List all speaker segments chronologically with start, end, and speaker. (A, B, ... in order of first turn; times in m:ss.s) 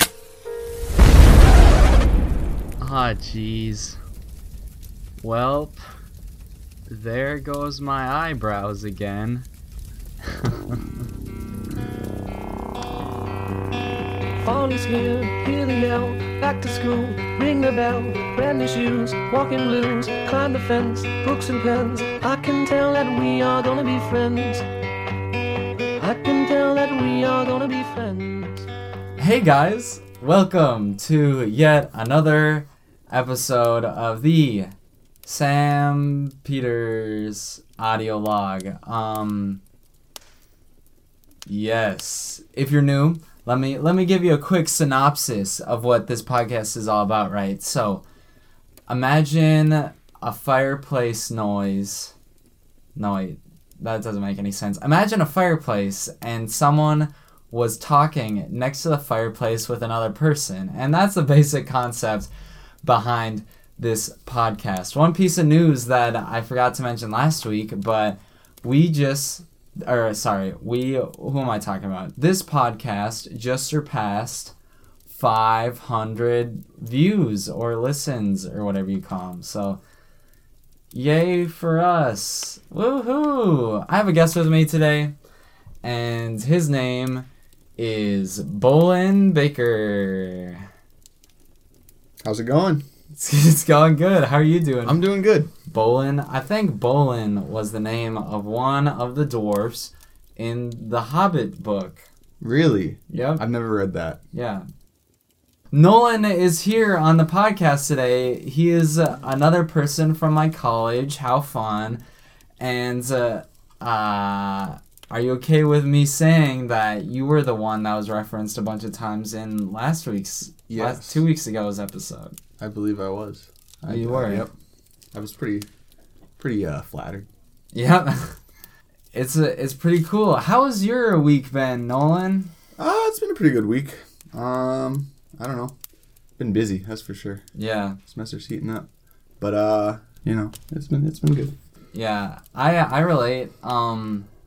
0:02.8-0:04.0 A
0:05.2-0:05.8 A
0:06.9-0:09.5 A
0:10.2-0:10.8 A
0:14.4-0:24.6 B
0:26.0-0:28.7 B
0:29.2-0:34.7 A
0:35.2-0:39.6 A
0:41.5-0:48.0 A
0:48.9-0:52.1 A
0:53.0-1:02.3 A
1:02.8-1:14.5 A
1:15.1-1:19.8 A
1:20.9-1:25.1 A
1:25.8-1:30.6 A
1:32.2-1:32.8 C
1:33.2-1:35.0 A
1:34.8-1:35.5 C
1:35.6-1:42.0 A
1:42.4-1:44.2 C
1:43.1-1:43.4 A
1:44.3-1:44.6 A
1:45.7-1:52.0 A
1:52.6-2:02.4 A
2:00.7-2:01.2 C
2:02.6-2:04.5 C
2:03.9-2:04.5 A
2:05.1-2:05.7 C
2:06.4-2:07.3 C
2:07.7-2:08.4 A
2:09.1-2:12.5 A
2:12.8-2:15.7 C
2:16.4-2:17.4 C
2:17.5-2:18.0 A
2:18.0-2:18.8 C
2:19.4-2:21.5 C
2:21.9-2:24.3 A